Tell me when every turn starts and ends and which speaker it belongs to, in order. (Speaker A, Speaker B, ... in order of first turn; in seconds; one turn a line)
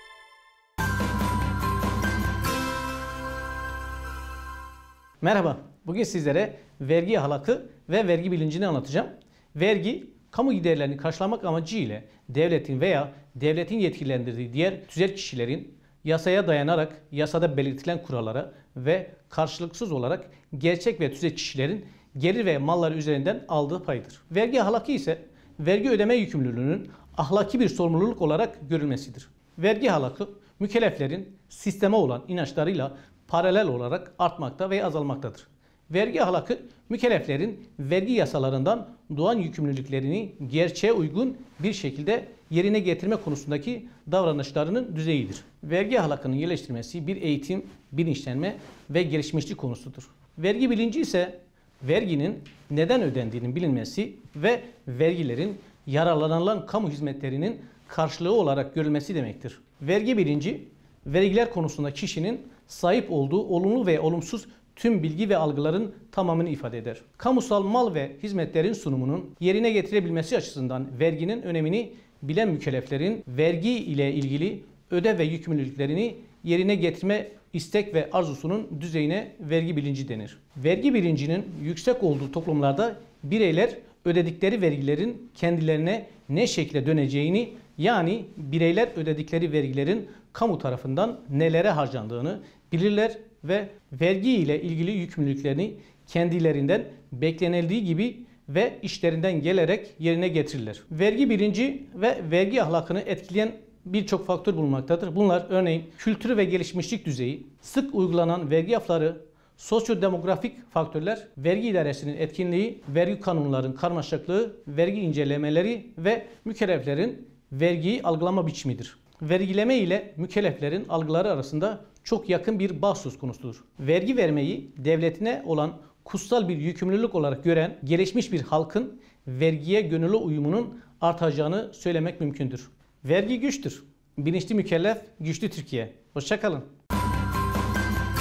Speaker A: 5.2-136.7